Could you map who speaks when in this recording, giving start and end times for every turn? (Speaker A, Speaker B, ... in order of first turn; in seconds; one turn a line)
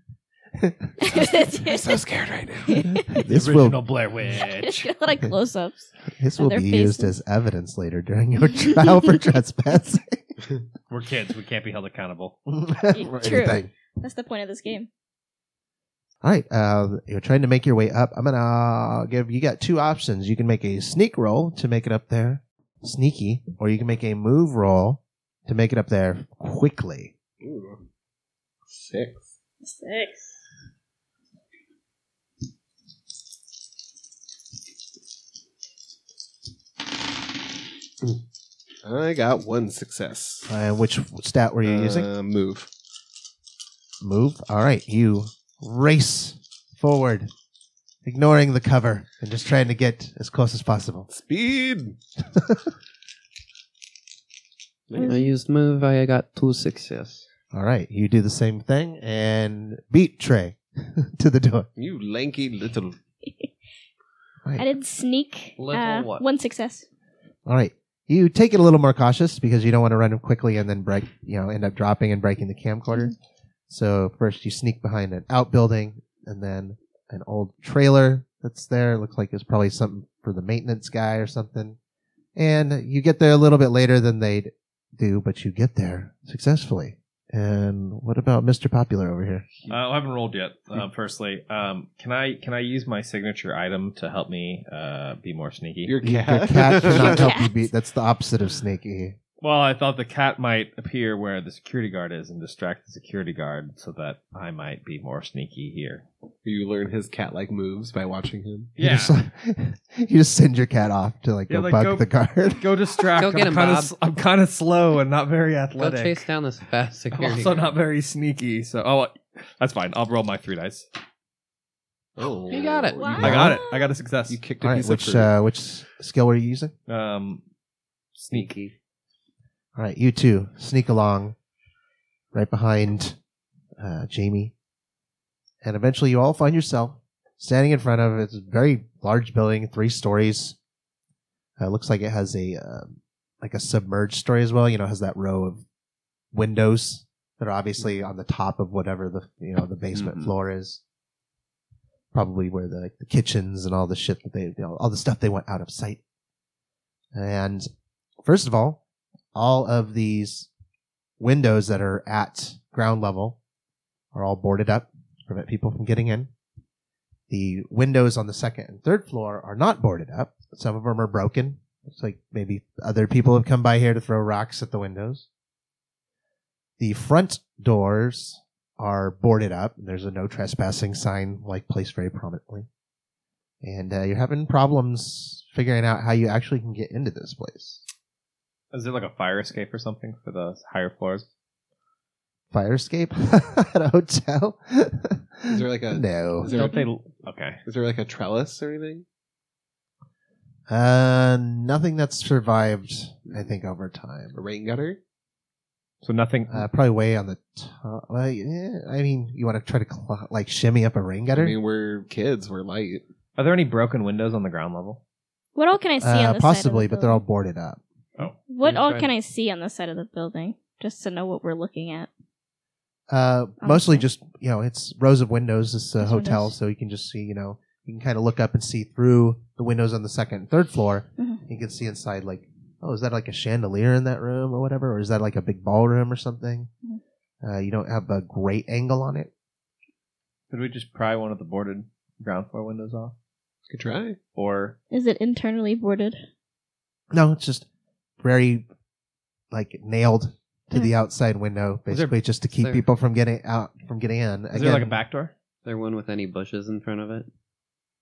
Speaker A: 0.6-0.9
Speaker B: 1.0-2.0
Speaker C: 1.1-2.9
Speaker B: 2.6-3.2
Speaker A: 2.8-3.9
Speaker D: 3.2-4.9
Speaker B: 4.3-7.1
Speaker A: 6.1-10.4
Speaker D: 10.9-12.4
Speaker A: 12.5-13.7
Speaker B: 12.9-14.9
Speaker A: 16.2-27.1
Speaker C: 27.4-27.8
Speaker C: 28.7-29.3
Speaker B: 29.6-30.4
Speaker C: 38.8-40.5
Speaker A: 40.5-42.1
Speaker C: 41.6-42.7
Speaker A: 44.0-47.3
Speaker A: 48.0-51.1
Speaker C: 51.1-52.0
Speaker A: 52.3-52.7
Speaker C: 54.9-55.2
Speaker B: 55.0-55.3
Speaker E: 55.0-57.2
Speaker A: 57.5-61.7
Speaker C: 61.8-63.0
Speaker B: 63.2-63.5
Speaker B: 64.5-66.8
Speaker E: 65.6-66.2
Speaker A: 67.5-73.1
Speaker A: 73.7-81.8
Speaker A: 82.3-89.5
Speaker D: 89.7-95.9
Speaker C: 95.8-97.3
Speaker A: 96.0-99.2
Speaker B: 96.9-97.7
Speaker D: 99.4-106.0
Speaker C: 106.4-108.7
Speaker D: 108.8-109.2
Speaker A: 108.8-112.7
Speaker D: 111.5-116.2
Speaker E: 113.1-113.9
Speaker E: 115.8-117.7
Speaker D: 117.1-120.9
Speaker C: 122.2-123.6
Speaker E: 122.5-123.1
Speaker B: 122.9-123.9
Speaker D: 123.1-124.4
Speaker C: 124.3-125.3
Speaker A: 124.6-126.7
Speaker D: 126.9-127.4
Speaker D: 128.2-128.6
Speaker E: 128.3-128.7
Speaker A: 129.7-131.3
Speaker A: 132.3-133.2
Speaker A: 133.8-134.5
Speaker A: 135.6-140.6
Speaker A: 141.6-145.6
Speaker A: 146.3-150.8
Speaker C: 149.9-150.3
Speaker A: 152.1-156.0
Speaker A: 157.1-157.7
Speaker A: 158.2-158.8
Speaker A: 159.3-160.5
Speaker A: 161.2-163.4
Speaker A: 164.1-166.3
Speaker A: 167.3-175.2
Speaker A: 176.8-182.7
Speaker A: 183.6-187.8
Speaker D: 188.7-191.3
Speaker A: 192.5-196.5
Speaker C: 195.5-196.8
Speaker B: 196.4-196.9
Speaker D: 196.5-197.6
Speaker C: 197.6-199.0
Speaker A: 200.7-204.4
Speaker C: 204.3-205.0
Speaker D: 206.0-206.7
Speaker A: 206.5-211.6
Speaker C: 211.3-213.0
Speaker D: 213.4-215.0
Speaker B: 215.5-217.2
Speaker A: 216.0-217.8
Speaker B: 218.5-222.1
Speaker E: 218.6-219.1
Speaker A: 223.1-236.7
Speaker B: 223.6-224.0
Speaker B: 226.0-226.5
Speaker A: 237.4-239.3
Speaker D: 240.5-243.1
Speaker C: 243.7-244.2
Speaker D: 244.3-244.8
Speaker B: 244.9-246.2
Speaker A: 247.1-247.7
Speaker A: 248.2-248.7
Speaker A: 249.5-255.0
Speaker D: 251.9-252.2
Speaker D: 254.5-255.3
Speaker E: 255.6-257.3